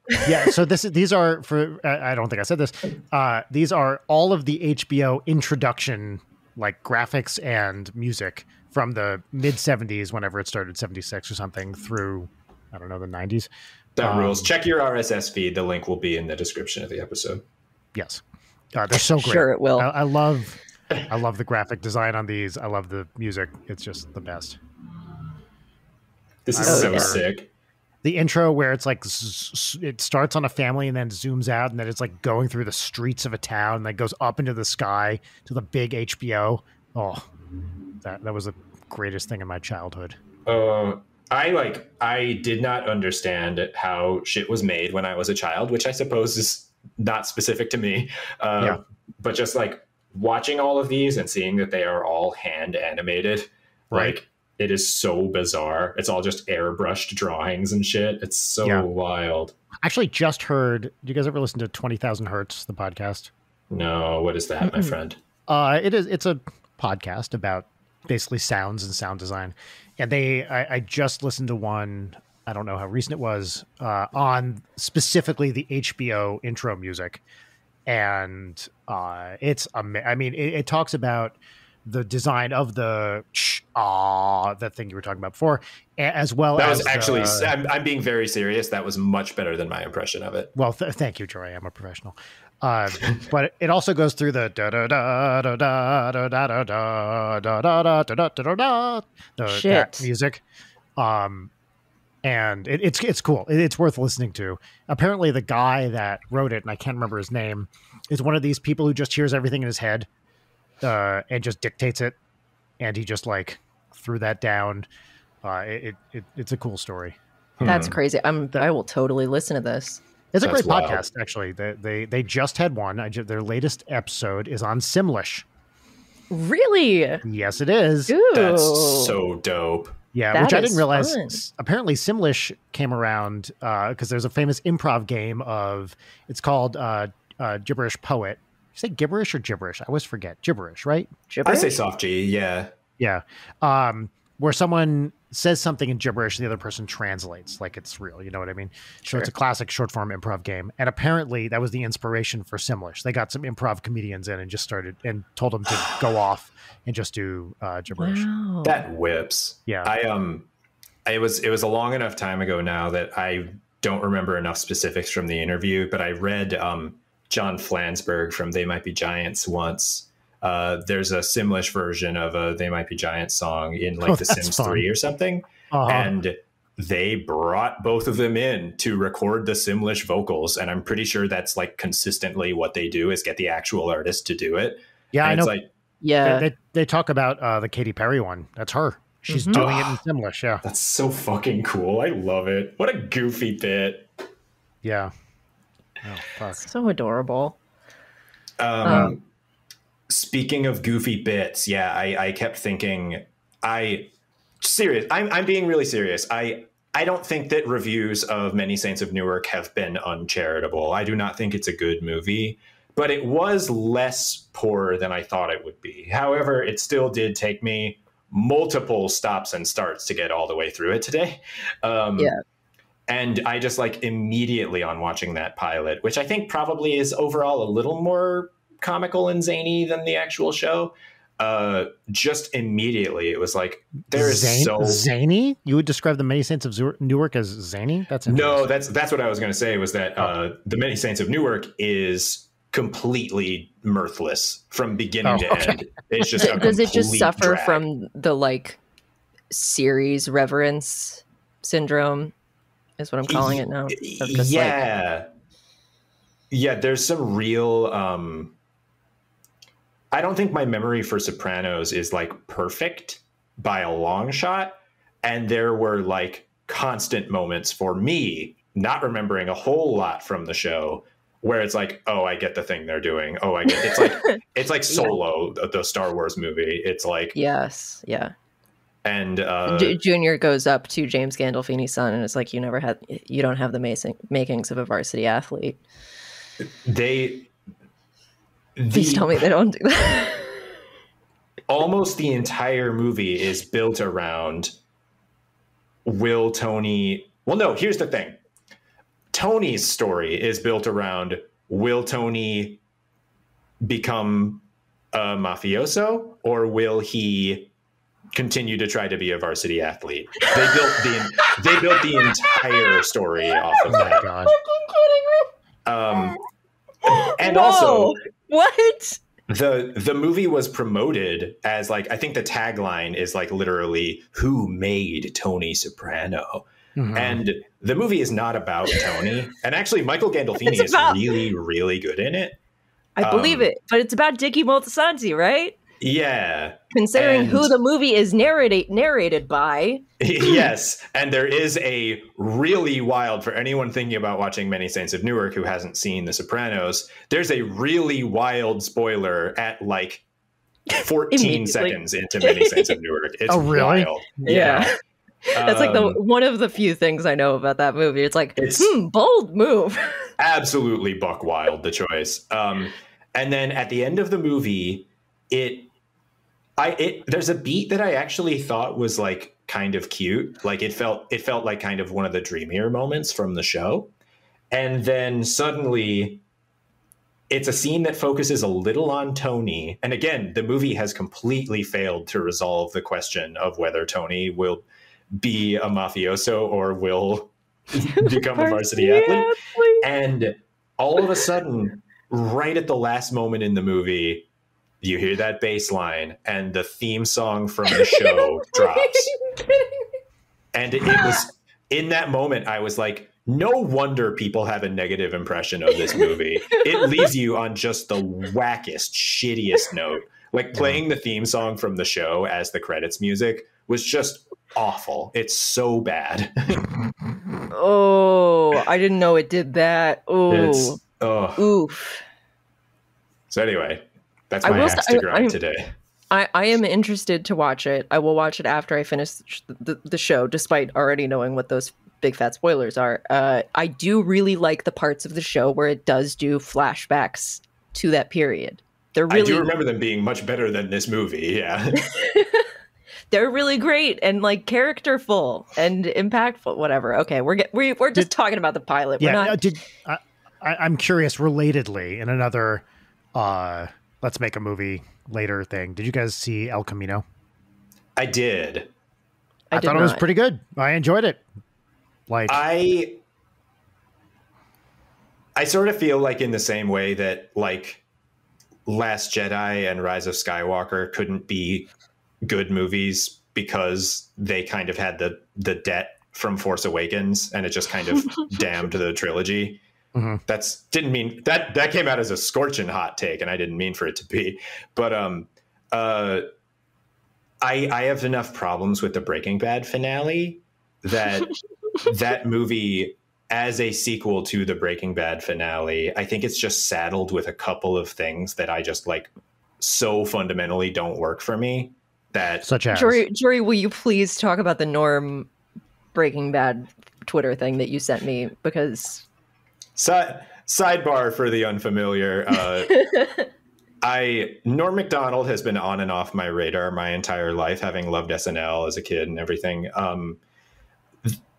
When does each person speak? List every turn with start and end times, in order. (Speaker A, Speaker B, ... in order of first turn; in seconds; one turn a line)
Speaker A: 0.2-13.5
Speaker B: 13.9-17.4
Speaker A: 14.0-14.5
Speaker A: 17.9-18.2
Speaker A: 18.7-24.6
Speaker C: 18.9-19.9
Speaker B: 26.4-27.5
Speaker A: 26.5-27.2
Speaker C: 26.6-27.2
Speaker A: 28.0-37.3
Speaker A: 38.0-40.2
Speaker B: 40.5-59.5
Speaker A: 53.9-54.2
Speaker A: 59.8-63.3
Speaker B: 63.7-65.2
Speaker C: 64.6-64.9
Speaker A: 65.5-77.2
Speaker A: 77.8-87.5
Speaker B: 86.5-90.5
Speaker A: 90.5-100.4
Speaker C: 99.5-100.1
Speaker A: 101.0-101.5
Speaker A: 102.2-110.1
Speaker A: 110.8-112.2
Speaker A: 112.8-114.9
Speaker A: 115.4-117.8
Speaker B: 117.6-118.0
Speaker C: 117.6-120.0
Speaker A: 120.3-125.4
Speaker B: 120.4-121.0
Speaker C: 126.3-127.2
Speaker A: 127.2-128.2
Speaker C: 128.1-129.2
Speaker B: 128.3-130.0
Speaker A: 130.1-141.1
Speaker C: 130.3-131.4
Speaker C: 141.3-141.8
Speaker B: 141.4-142.7
Speaker A: 143.0-158.3
Speaker C: 157.9-158.8
Speaker B: 158.6-160.5
Speaker B: 161.1-185.7
Speaker A: 174.0-174.9
Speaker A: 175.7-176.1
Speaker A: 185.1-185.5
Speaker C: 186.0-186.5
Speaker A: 186.2-190.6
Speaker C: 189.3-189.6
Speaker B: 189.5-190.0
Speaker B: 190.6-194.1
Speaker A: 194.8-195.1
Speaker A: 196.0-196.7
Speaker C: 196.6-197.6
Speaker B: 198.6-199.2
Speaker C: 198.8-199.1
Speaker B: 200.1-204.1
Speaker B: 204.6-222.3
Speaker B: 223.1-235.0
Speaker A: 234.1-238.7
Speaker B: 238.3-247.8
Speaker A: 245.2-245.8
Speaker C: 246.4-248.8
Speaker C: 249.5-252.3
Speaker C: 253.0-254.8
Speaker B: 253.3-255.3
Speaker B: 256.5-258.5
Speaker B: 260.1-277.4
Speaker C: 273.9-274.4
Speaker C: 274.9-275.1
Speaker C: 277.3-278.3
Speaker B: 279.0-280.0
Speaker C: 279.6-285.8
Speaker B: 286.8-287.5
Speaker B: 288.8-289.5
Speaker C: 288.9-290.7
Speaker B: 291.7-294.7
Speaker B: 296.0-298.4
Speaker B: 299.3-302.8
Speaker B: 303.8-307.7
Speaker B: 308.3-314.3
Speaker C: 310.4-313.0
Speaker A: 313.9-314.6
Speaker C: 313.9-315.5
Speaker B: 315.8-316.4
Speaker C: 317.0-319.2
Speaker B: 317.1-318.1
Speaker B: 319.5-332.6
Speaker A: 327.0-327.4
Speaker C: 330.6-331.4
Speaker C: 333.2-335.8
Speaker B: 333.2-333.7
Speaker B: 336.0-337.7
Speaker C: 336.9-340.7
Speaker B: 340.2-350.2
Speaker C: 350.9-352.9
Speaker B: 350.9-354.9
Speaker A: 353.5-354.1
Speaker C: 354.4-354.9
Speaker C: 355.5-360.2
Speaker B: 355.6-356.2
Speaker B: 358.6-358.9
Speaker B: 360.4-365.9
Speaker B: 366.8-374.1
Speaker B: 374.7-376.4
Speaker B: 377.5-394.5
Speaker C: 388.0-390.0
Speaker B: 395.0-399.3
Speaker C: 397.9-400.0
Speaker B: 400.7-416.9
Speaker C: 401.1-401.4
Speaker A: 410.7-411.0
Speaker C: 417.7-421.0
Speaker B: 420.5-421.7
Speaker C: 421.6-422.2
Speaker B: 423.5-425.9
Speaker C: 424.6-425.6
Speaker A: 424.7-424.9
Speaker C: 426.3-439.7
Speaker B: 439.3-442.0
Speaker C: 442.0-442.7
Speaker C: 443.3-449.6
Speaker A: 449.2-457.2
Speaker B: 458.2-458.9
Speaker C: 459.7-460.2
Speaker A: 459.7-461.4
Speaker A: 462.3-462.6
Speaker B: 462.5-463.2
Speaker B: 465.6-468.0
Speaker B: 468.9-471.9
Speaker B: 472.4-479.8
Speaker A: 480.1-480.4
Speaker B: 480.5-486.4
Speaker B: 487.6-502.6
Speaker A: 502.6-503.2
Speaker C: 502.9-505.5
Speaker C: 506.1-509.2
Speaker B: 509.9-513.0
Speaker C: 513.0-513.5
Speaker B: 514.0-520.4